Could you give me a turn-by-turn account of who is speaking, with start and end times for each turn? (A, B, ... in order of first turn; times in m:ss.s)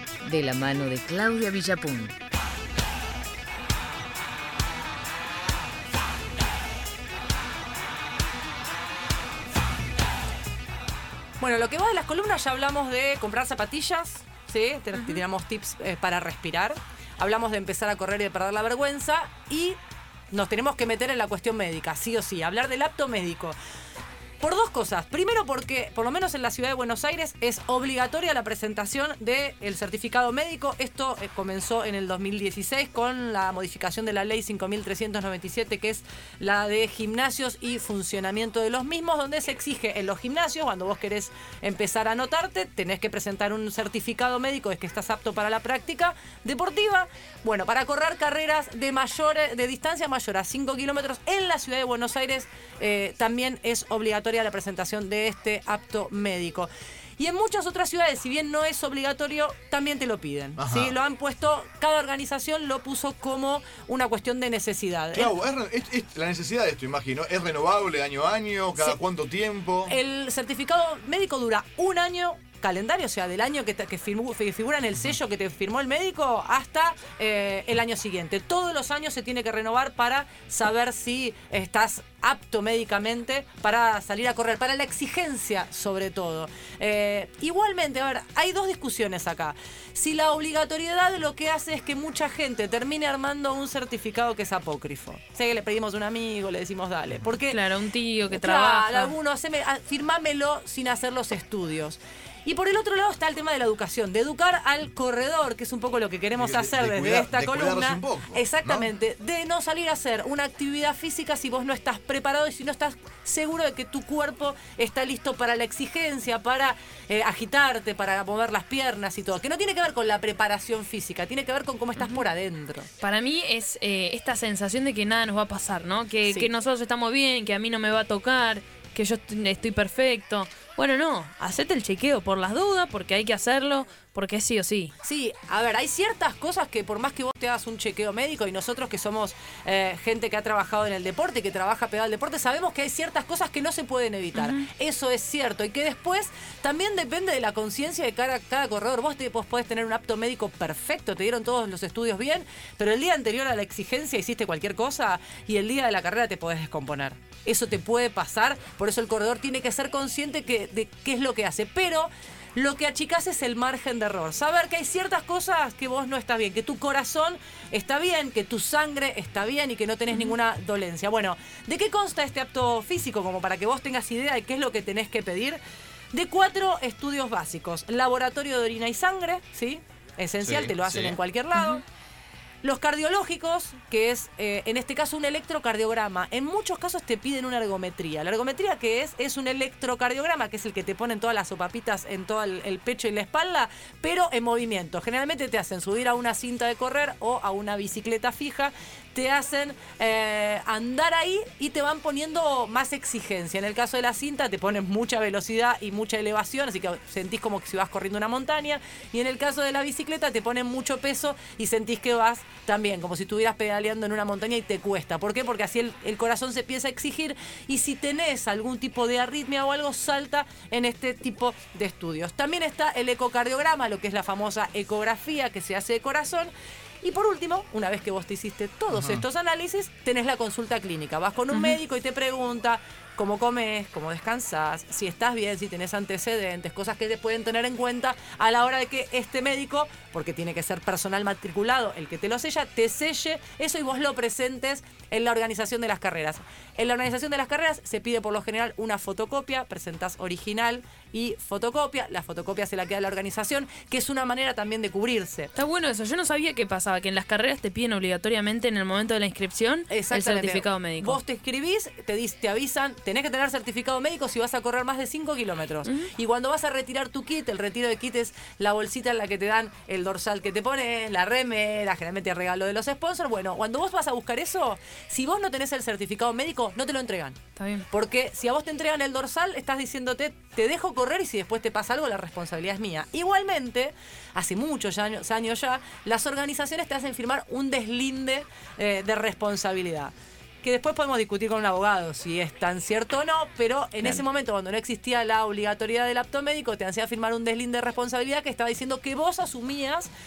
0:00.2-0:02.2 A
0:11.4-0:19.8 B
0:14.9-0:15.2 C
0:20.3-0:23.6 B
0:24.4-1:05.3 B
1:00.6-1:01.0 D
1:05.1-1:10.0 D
1:09.9-1:37.6 B
1:37.5-1:39.1 C
1:38.3-2:02.9 B
1:46.4-1:48.9 D
2:03.0-2:14.9 C
2:15.0-2:55.6 B
2:24.4-2:24.7 C
2:56.1-3:01.8 B
3:00.4-3:01.2 D
3:02.6-3:46.5 B
3:47.0-4:15.5 B
3:48.9-3:49.2 D
3:51.5-3:51.8 C
4:15.6-4:21.2 C
4:19.9-5:00.1 B
4:25.8-4:26.1 C
4:37.6-4:37.8 C